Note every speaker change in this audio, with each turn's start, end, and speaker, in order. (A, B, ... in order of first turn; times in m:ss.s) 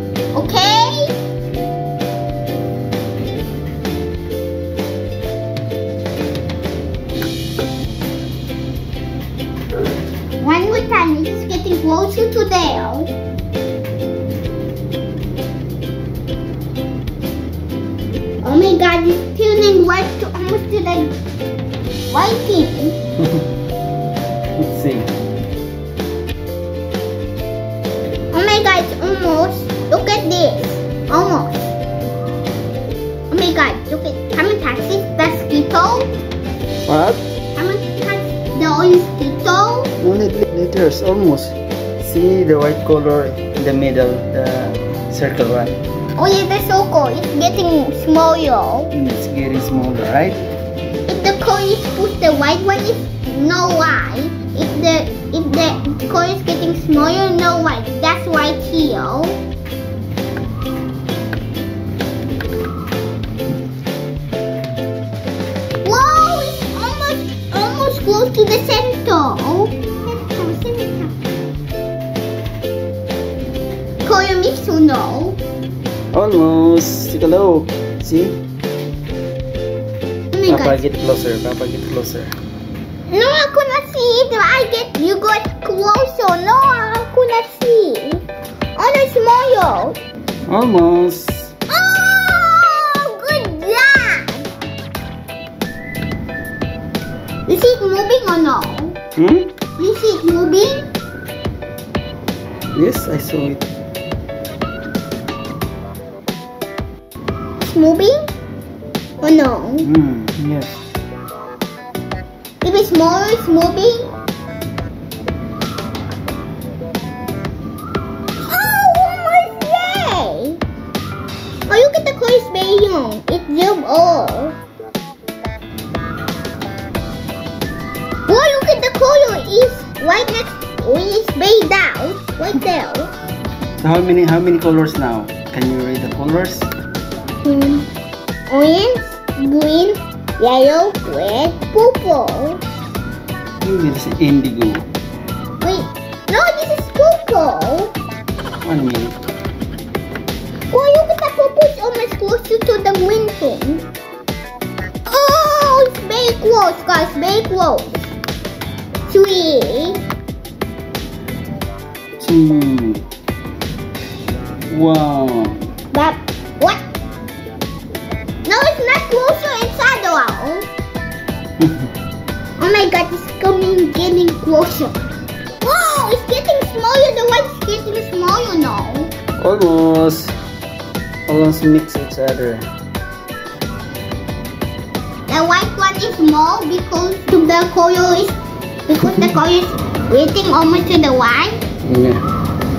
0:00.3-0:01.2 A
0:10.4-0:13.1 A
0:18.4-0:21.1 A
0:22.1-0:23.0 A
0:24.6-0:25.1 B
0:28.3-0:31.7 A
0:33.3-0:36.1 A
0:36.8-0:37.2 B
0:37.6-0:39.9 A
0:40.0-0:45.8 B
0:46.2-0:48.9 A
0:48.9-0:50.4 B
0:51.0-0:59.4 A
1:05.8-1:11.1 A
1:14.0-1:15.4 A
1:16.1-1:18.4 B
1:20.3-1:20.8 A
1:20.5-1:22.3 B
1:23.1-1:28.2 A
1:28.7-1:30.0 A
1:30.4-1:31.5 B
1:31.7-1:34.5 A
1:37.4-1:39.0 A
1:39.2-1:39.5 B
1:39.8-1:40.9 A
1:42.7-1:43.6 B
1:47.6-1:48.2 A
1:49.2-1:49.9 A
1:49.8-1:50.8 B
1:52.6-1:54.1 A
1:58.5-2:00.6 A
2:01.7-2:04.6 A
2:08.3-2:13.1 A
2:13.8-2:16.7 B
2:17.4-2:17.9 A
2:18.5-2:22.6 A
2:23.6-2:24.9 B
2:25.6-2:27.9 A
2:28.6-2:29.2 B
2:30.7-2:33.8 A
2:35.0-2:38.1 A
2:39.1-2:40.0 A
2:42.2-2:43.0 B
2:44.7-2:45.6 B
2:45.9-2:46.8 A
2:48.4-2:50.7 A
2:51.6-2:51.9 B
2:52.6-2:55.0 A
2:55.6-2:59.1 A
2:59.4-3:00.3 B
3:01.3-3:02.7 B
3:05.3-3:11.6 A
3:11.8-3:12.2 B